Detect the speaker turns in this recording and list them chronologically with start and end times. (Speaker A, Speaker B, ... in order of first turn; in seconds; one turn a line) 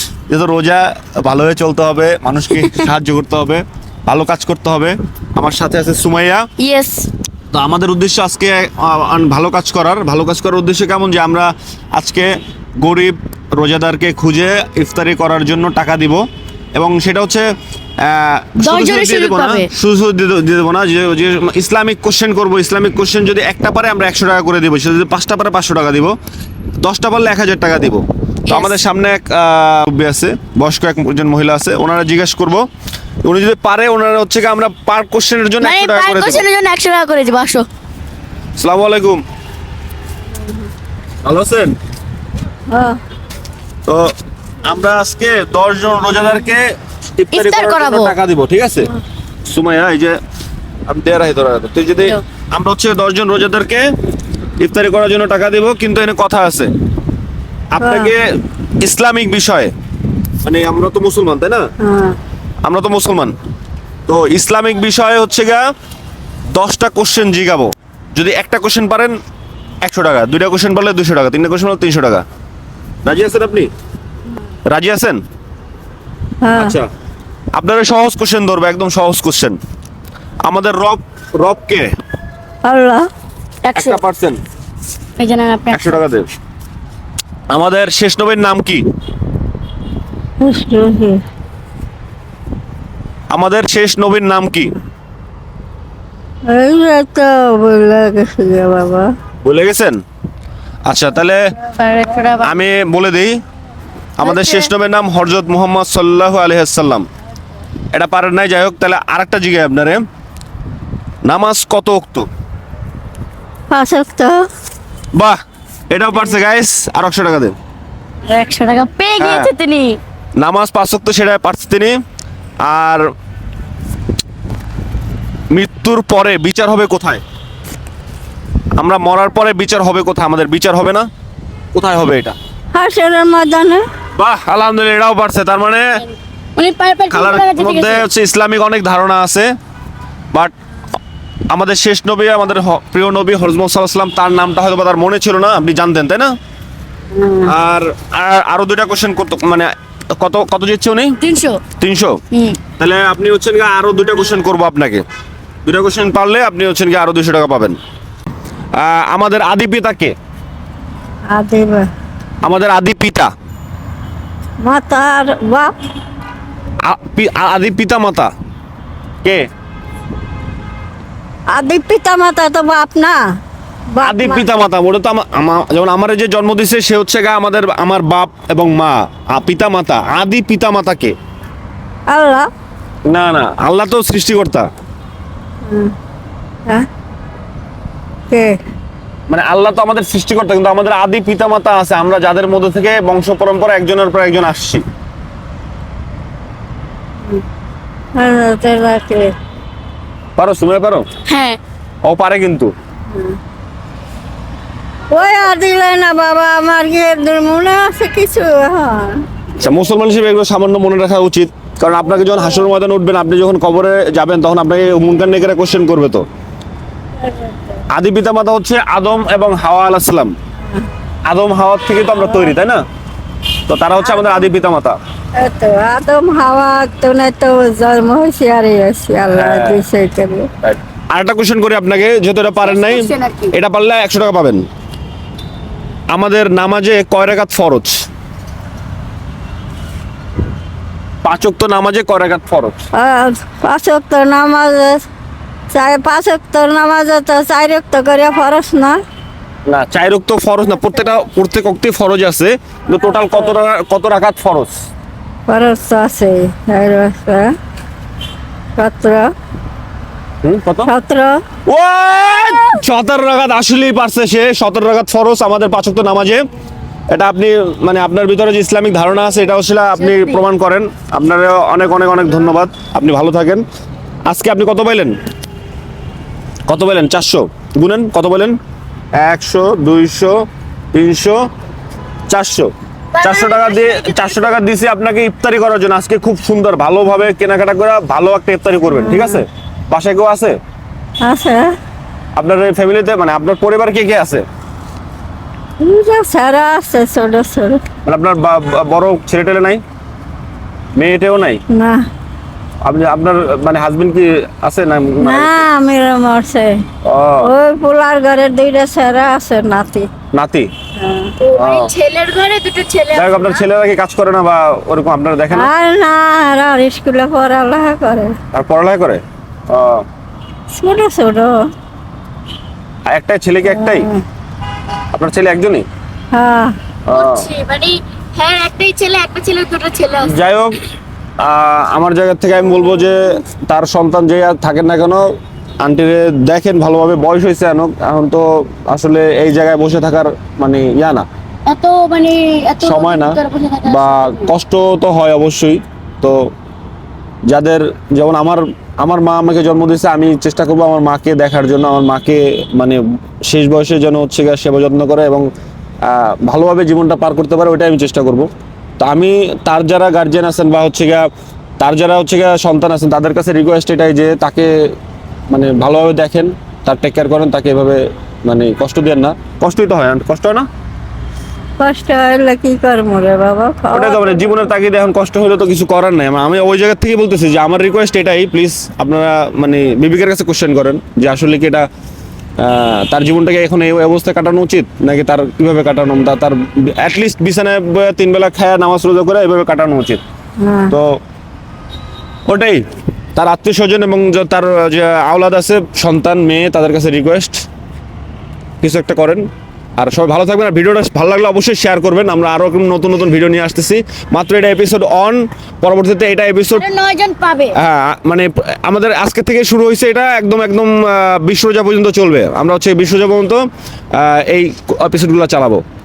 Speaker A: 0.3-6.5
Speaker B: 6.6-7.1
Speaker A: 7.5-17.5
Speaker A: 18.0-26.2
Speaker B: 18.6-19.7
Speaker A: 26.8-32.7
Speaker B: 28.5-28.8
Speaker A: 33.2-36.4
Speaker B: 35.6-37.7
Speaker A: 38.6-39.2
Speaker A: 41.2-41.8
Speaker C: 42.7-43.0
Speaker A: 43.9-44.1
Speaker A: 44.6-46.7
Speaker A: 47.2-48.9
Speaker B: 47.3-48.1
Speaker A: 49.5-50.2
Speaker A: 50.9-53.9
Speaker A: 54.6-56.7
Speaker A: 57.7-59.7
Speaker C: 57.8-58.1
Speaker A: 60.4-61.7
Speaker C: 61.8-62.2
Speaker A: 62.6-63.3
Speaker A: 64.1-65.7
Speaker A: 66.5-69.2
Speaker A: 69.8-72.2
Speaker A: 73.0-73.7
Speaker A: 74.7-75.2
Speaker C: 76.4-76.8
Speaker A: 76.6-76.9
Speaker A: 77.5-79.6
Speaker A: 80.4-81.9
Speaker C: 82.6-83.1
Speaker B: 83.6-84.0
Speaker A: 83.7-84.4
Speaker B: 85.2-85.8
Speaker A: 85.7-86.3
Speaker A: 87.5-88.8
Speaker C: 90.4-91.2
Speaker A: 93.3-94.7
Speaker C: 96.5-99.1
Speaker A: 99.4-100.0
Speaker A: 100.8-101.4
Speaker B: 101.7-102.6
Speaker A: 102.4-103.4
Speaker A: 104.2-107.1
Speaker B: 104.2-104.7
Speaker A: 107.9-110.0
Speaker A: 111.2-112.3
Speaker C: 113.7-114.5
Speaker A: 115.9-117.5
Speaker B: 118.2-120.0
Speaker A: 119.2-119.5
Speaker A: 120.4-122.0
Speaker A: 122.6-123.0
Speaker A: 125.5-127.2
Speaker A: 128.8-131.1
Speaker A: 131.7-132.3
Speaker C: 132.7-133.8
Speaker A: 134.2-136.0
Speaker B: 136.6-138.0
Speaker A: 137.1-139.5
Speaker A: 141.5-146.3
Speaker B: 147.1-147.5
Speaker A: 147.4-151.2
Speaker B: 151.2-151.6
Speaker A: 151.8-152.2
Speaker B: 152.3-152.6
Speaker A: 152.8-155.0
Speaker A: 155.7-157.8
Speaker A: 158.8-160.2
Speaker C: 161.3-161.9
Speaker A: 162.4-163.3
Speaker C: 164.6-165.7
Speaker A: 166.8-168.3
Speaker C: 171.5-173.2
Speaker C: 173.9-174.4
Speaker A: 174.0-181.2
Speaker C: 182.1-182.5
Speaker A: 183.1-184.7
Speaker C: 185.7-185.9
Speaker C: 188.3-188.6
Speaker A: 189.3-194.8
Speaker C: 198.2-199.3
Speaker A: 200.4-201.1
Speaker B: 201.3-201.6
Speaker A: 202.0-202.7
Speaker C: 203.1-203.4
Speaker C: 205.1-209.2
Speaker A: 209.6-216.2
Speaker C: 217.2-217.8
Speaker A: 217.9-220.3
Speaker A: 221.2-222.8
Speaker C: 222.2-222.5
Speaker A: 223.7-225.0
Speaker C: 224.0-224.4
Speaker C: 225.4-230.5
Speaker A: 229.3-229.8
Speaker A: 230.6-234.7
Speaker B: 232.6-233.5
Speaker A: 236.1-238.1
Speaker A: 241.2-242.8
Speaker C: 242.9-245.0
Speaker C: 245.7-249.0
Speaker A: 249.7-254.7
Speaker C: 255.5-257.5
Speaker C: 258.8-259.3
Speaker A: 260.4-260.9
Speaker C: 260.9-261.4
Speaker A: 261.7-266.5
Speaker A: 267.1-273.6
Speaker A: 274.3-275.2
Speaker A: 276.7-278.6
Speaker A: 279.2-281.4
Speaker A: 282.3-290.6
Speaker B: 283.1-284.4
Speaker C: 288.9-289.4
Speaker C: 291.2-291.7
Speaker A: 292.4-294.4
Speaker C: 295.8-297.8
Speaker A: 298.1-299.8
Speaker A: 301.0-301.6
Speaker C: 301.7-302.0
Speaker A: 302.8-305.7
Speaker C: 305.2-306.8
Speaker A: 307.0-307.5
Speaker C: 307.4-310.1
Speaker A: 310.3-310.7
Speaker C: 311.0-311.3
Speaker B: 311.4-313.6
Speaker A: 311.6-311.9
Speaker A: 313.1-315.7
Speaker C: 315.5-318.3
Speaker A: 318.5-320.1
Speaker C: 320.7-321.6
Speaker A: 323.1-324.1
Speaker C: 323.6-324.2
Speaker A: 325.1-325.9
Speaker C: 326.3-326.8
Speaker A: 327.1-327.5
Speaker B: 327.1-330.3
Speaker A: 330.2-330.8
Speaker A: 331.4-335.3
Speaker A: 335.8-341.3
Speaker B: 341.7-344.5
Speaker A: 342.8-346.5
Speaker A: 347.5-355.5
Speaker A: 356.0-361.3
Speaker A: 361.8-364.7
Speaker A: 365.5-370.7
Speaker C: 371.8-374.7
Speaker A: 373.9-381.9
Speaker A: 382.6-390.2
Speaker C: 390.6-390.9
Speaker A: 390.9-391.2
Speaker A: 392.5-392.8
Speaker A: 393.4-397.6
Speaker A: 398.8-399.5
Speaker A: 400.0-406.9
Speaker B: 406.7-407.8
Speaker A: 407.8-415.8